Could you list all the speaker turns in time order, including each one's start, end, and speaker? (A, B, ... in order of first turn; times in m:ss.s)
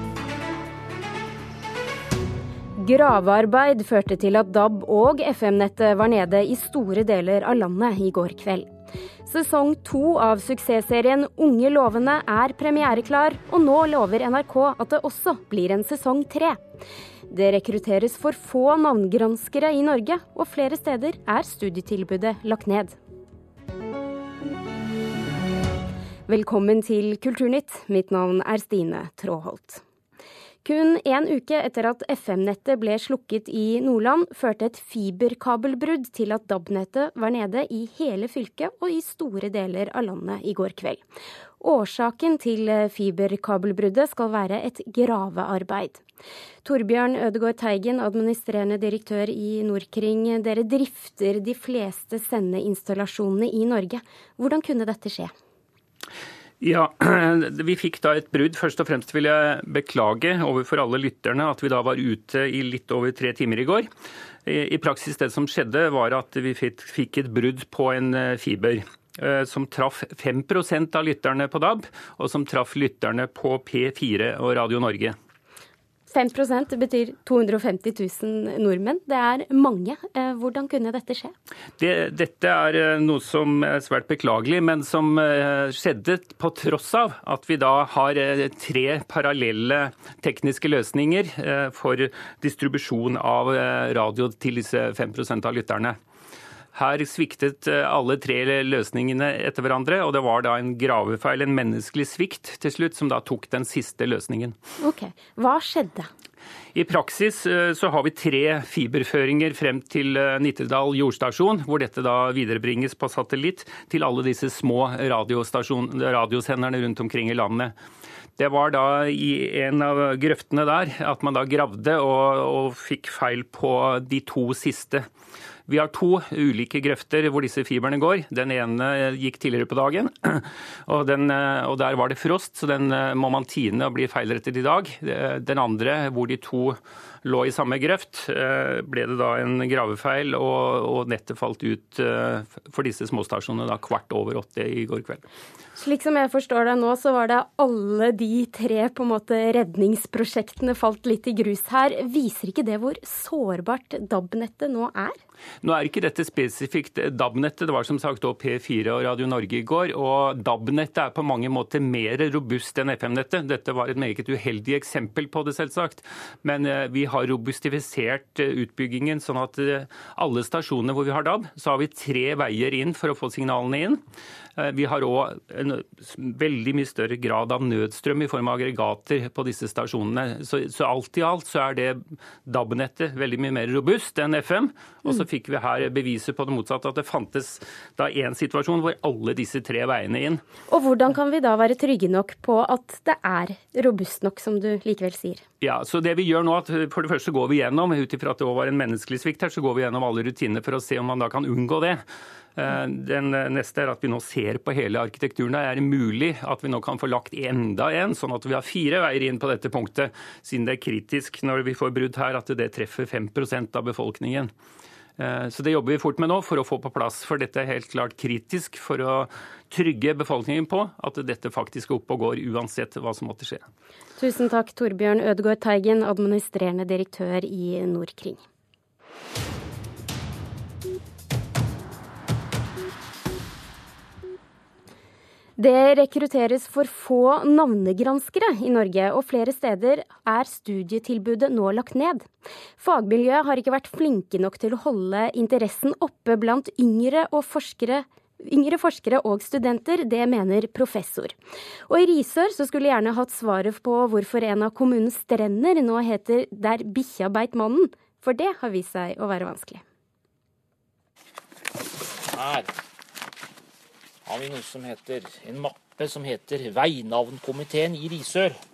0:02.8-0:08.7 A
0:09.2-0:16.6 A
0:17.3-0:23.0 A
0:26.3-0:29.8 A
0:30.6-0:41.0 A
0:41.6-0:46.0 A
0:46.6-0:55.3 A
0:56.6-1:03.9 B
1:04.4-1:15.2 B
1:16.1-1:21.3 A
1:21.8-1:36.0 B
1:36.7-1:44.5 B
1:44.8-1:46.1 A
1:46.7-1:57.7 B
1:58.4-2:05.0 B
2:05.7-2:25.2 B
2:25.8-2:35.2 A
2:35.6-2:54.0 B
2:54.6-3:10.4 B
3:10.7-3:15.4 A
3:15.6-3:22.0 B
3:22.6-3:34.5 B
3:35.2-3:43.7 B
3:44.2-3:48.4 A
3:55.6-4:02.3 A
4:02.8-4:11.3 A
4:11.9-4:19.8 A
4:22.3-4:22.7 C
4:24.2-4:28.6 C